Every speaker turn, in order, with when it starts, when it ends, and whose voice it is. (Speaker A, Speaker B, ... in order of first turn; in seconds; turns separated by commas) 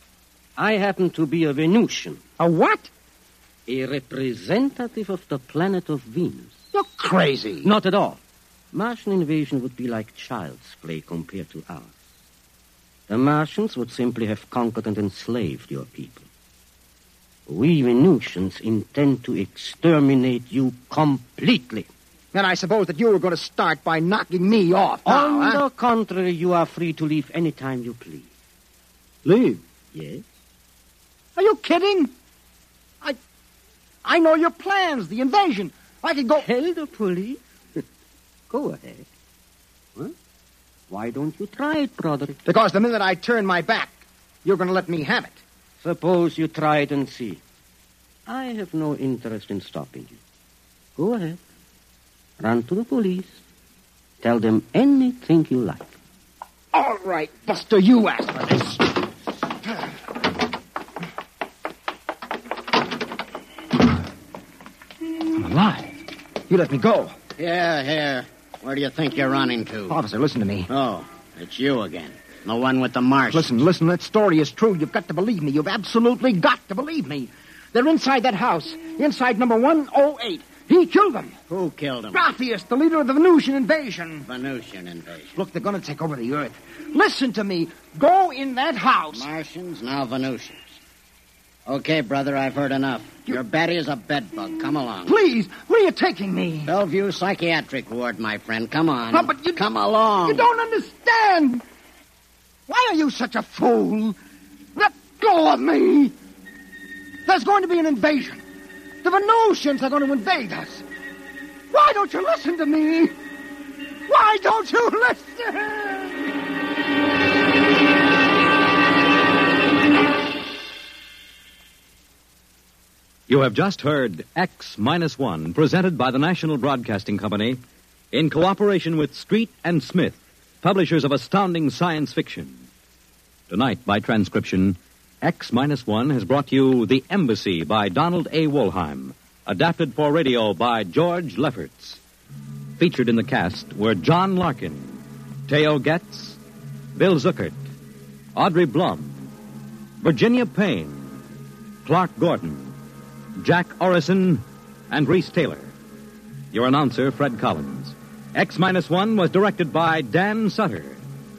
Speaker A: 0.6-2.2, Speaker B: 2.4-2.9, Speaker A: 3.7-6.6, Speaker B: 6.7-7.7, Speaker A: 7.6-8.2, Speaker A: 8.7-11.9, Speaker A: 13.1-16.3, Speaker A: 17.5-21.9, Speaker B: 22.3-25.6, Speaker A: 25.1-28.3, Speaker B: 29.2-29.6, Speaker A: 29.9-30.2, Speaker B: 31.4-32.1, Speaker B: 34.0-36.5, Speaker A: 36.4-37.8, Speaker A: 38.5-39.0, Speaker A: 40.9-42.4, Speaker B: 42.4-45.4, Speaker A: 45.8-47.4, Speaker A: 48.3-50.2, Speaker A: 51.0-51.4, Speaker A: 52.4-53.4, Speaker A: 54.2-55.9, Speaker B: 56.7-59.0, Speaker B: 65.3-67.2, Speaker C: 67.4-70.0, Speaker B: 69.9-70.7, Speaker C: 70.7-73.6, Speaker B: 73.3-81.3, Speaker C: 81.5-82.2, Speaker B: 82.1-84.3, Speaker C: 84.2-85.3, Speaker B: 85.3-89.3, Speaker C: 89.1-90.8, Speaker C: 91.7-95.1, Speaker B: 95.0-96.7, Speaker C: 96.7-100.4, Speaker B: 99.1-99.6, Speaker B: 100.2-101.6, Speaker B: 102.7-104.2, Speaker B: 104.7-106.1, Speaker B: 107.2-108.4, Speaker B: 109.0-110.8, Speaker B: 111.7-113.1, Speaker B: 114.1-116.3, Speaker D: 123.3-127.6, Speaker D: 128.1-132.7, Speaker D: 133.5-142.0, Speaker D: 142.8-146.4, Speaker D: 146.9-147.6, Speaker D: 148.3-149.3, Speaker D: 150.0-151.2, Speaker D: 151.8-152.8, Speaker D: 153.4-155.7, Speaker D: 156.5-161.0